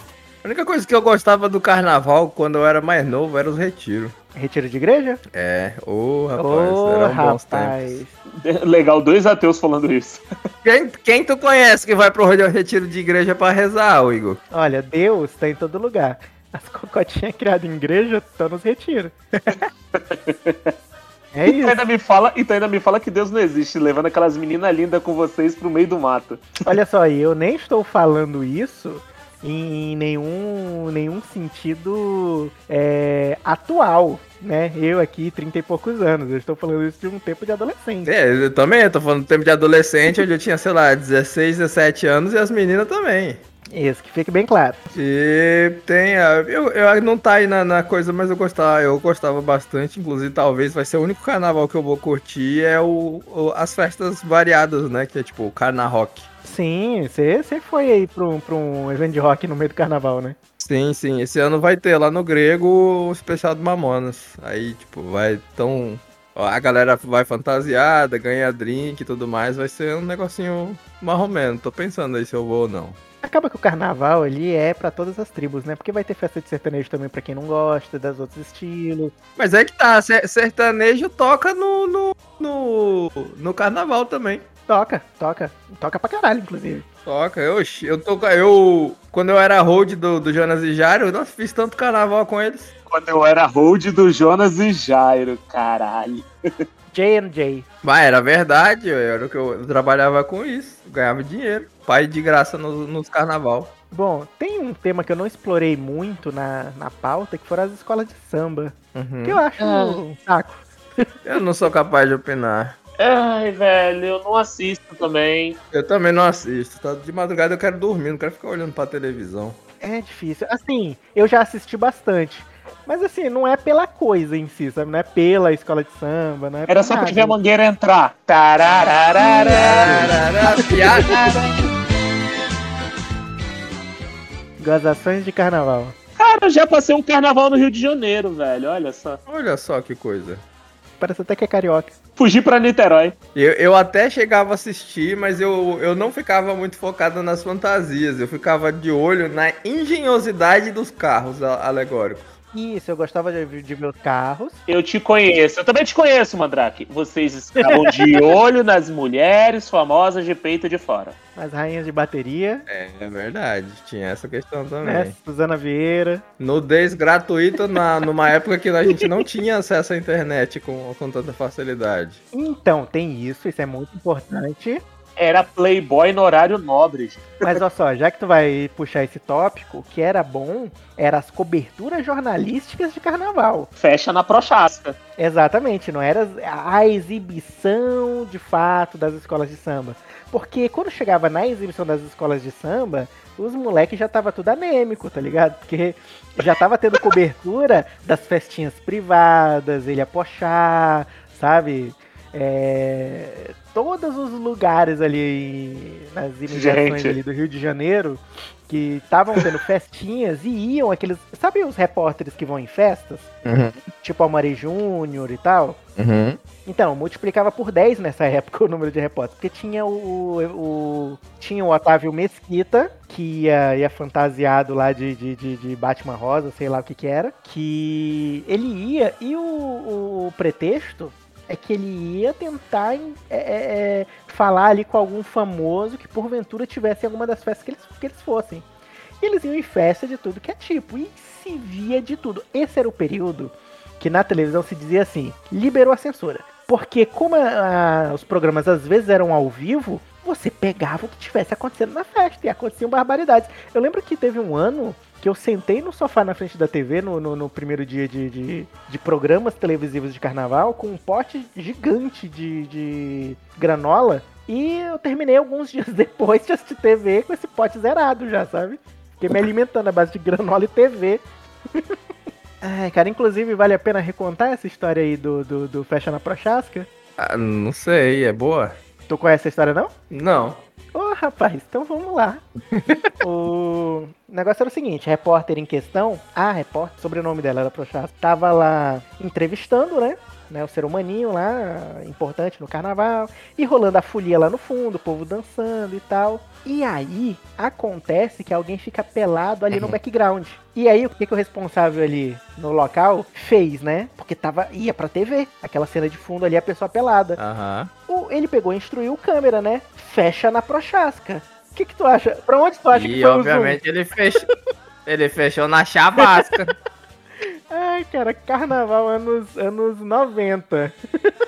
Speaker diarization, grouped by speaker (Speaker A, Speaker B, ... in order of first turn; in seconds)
Speaker A: 0.4-4.1, 5.3-8.0, 10.6-14.4, 38.0-43.4, 44.9-56.3, 60.6-73.0, 79.4-84.5, 87.0-92.7, 97.8-103.7, 108.9-109.4, 111.2-112.8, 115.7-119.6, 129.5-131.5, 139.3-140.4, 143.3-152.3, 162.7-165.1, 166.4-172.2, 213.4-213.8, 216.0-216.4, 277.2-278.8, 280.1-280.6, 282.7-283.1, 299.7-300.0, 307.4-307.9, 312.9-314.5, 315.1-316.7
Speaker B: 4.3-5.2, 6.4-8.1, 14.5-19.6, 21.3-21.8, 26.6-38.1, 43.7-44.9, 56.4-60.4, 73.2-79.1, 84.7-86.8, 96.9-97.7, 103.9-111.1, 119.8-127.3, 129.2-131.1, 134.6-135.9, 141.0-141.9, 152.5-154.6, 157.6-158.3, 161.3-162.7, 164.8-166.2, 172.3-174.8, 177.4-183.7, 185.2-213.3, 214.0-215.8, 216.6-238.6, 239.2-271.2, 272.6-276.9, 279.1-279.9, 280.9-282.4, 283.2-307.4, 308.1-313.8, 316.2-316.5, 317.4-321.3
Speaker C: 8.3-10.2, 19.9-20.7, 21.4-26.6, 92.9-96.3, 109.6-110.0, 113.0-115.6, 126.7-130.0, 136.2-139.2, 142.2-143.1, 154.7-161.2, 175.2-177.6, 183.8-185.0, 206.5-207.2